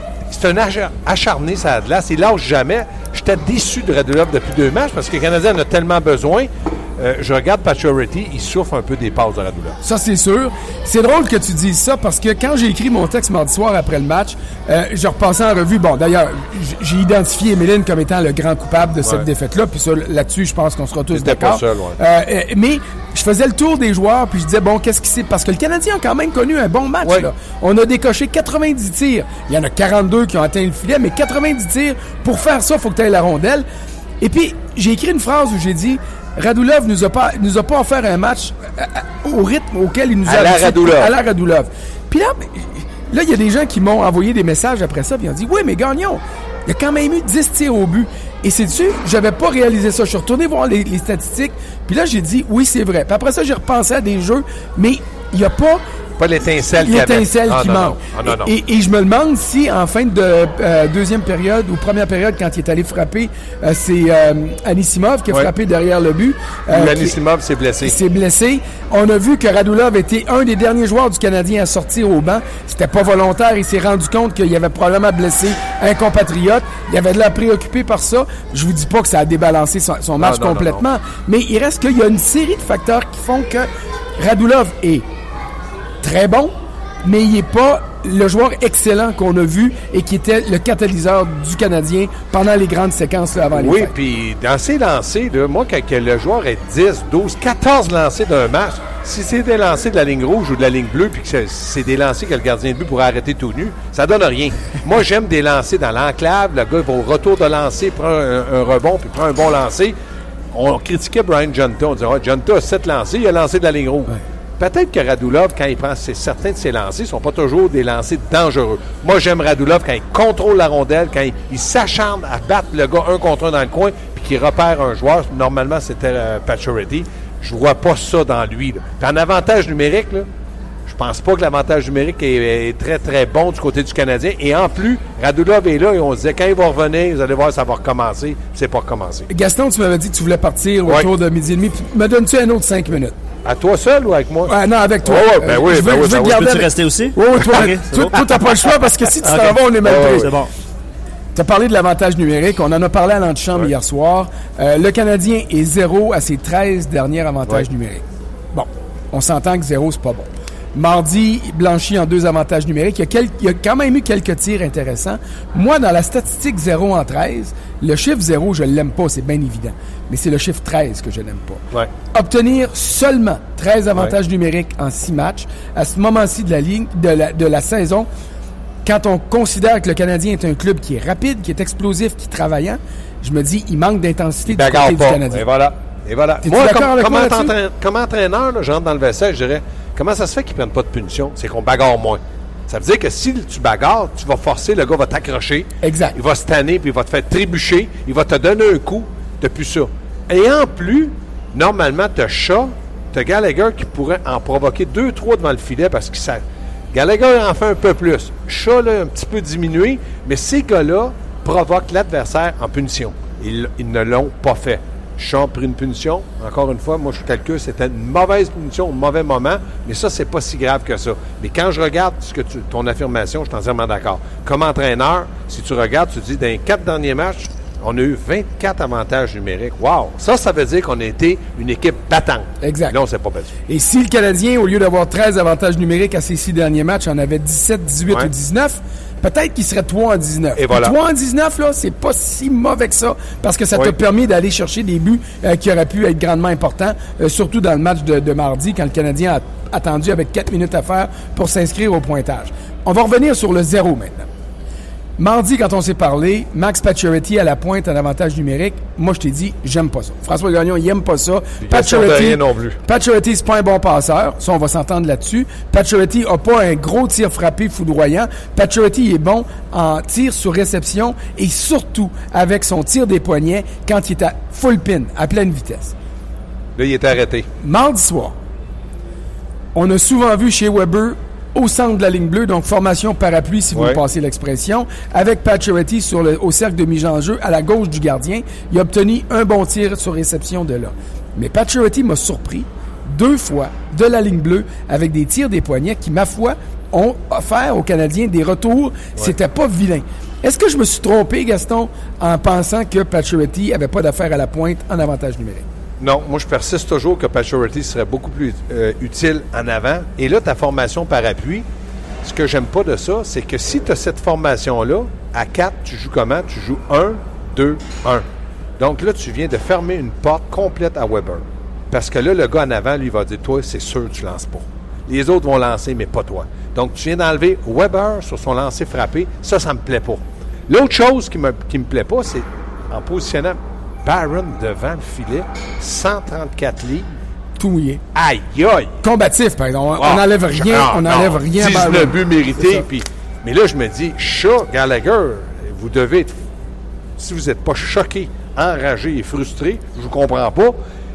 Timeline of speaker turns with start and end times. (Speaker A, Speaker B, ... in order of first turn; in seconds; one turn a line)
Speaker A: 0.3-9.8
Speaker B: 9.8-33.6
Speaker A: 21.1-22.0
Speaker A: 27.0-27.3
Speaker B: 34.2-55.8
Speaker A: 40.2-41.1
Speaker A: 56.2-58.5
Speaker B: 56.7-67.2
Speaker A: 66.7-68.0
Speaker B: 67.8-85.0
Speaker A: 80.2-80.8
Speaker B: 86.0-93.9
Speaker A: 93.5-110.0
Speaker A: 110.5-130.3
Speaker A: 130.8-139.3
Speaker B: 139.3-143.2
Speaker A: 140.8-141.1
Speaker A: 143.4-146.6
Speaker B: 144.5-150.3
Speaker C: 146.1-148.2
Speaker C: 149.2-150.5
Speaker A: 149.8-150.3
Speaker B: 151.3-178.1
Speaker B: 178.8-185.5
Speaker A: 184.4-233.5
Speaker B: 186.4-187.5
Speaker B: 195.8-196.2
Speaker B: 232.6-233.0
Speaker B: 233.7-254.3
Speaker A: 240.6-240.9
Speaker B: 255.2-275.9
Speaker A: 261.6-262.8
Speaker A: 276.8-277.5
Speaker B: 277.6-278.4
Speaker B: 279.7-305.6
Speaker A: 283.7-284.0
Speaker A: 306.0-311.6
Speaker A: 312.2-318.2
Speaker A: 318.8-337.1
Speaker B: 337.6-338.0
Speaker A: 338.1-339.0
Speaker B: 339.0-342.8
Speaker A: 340.0-346.4
Speaker A: 347.2-350.8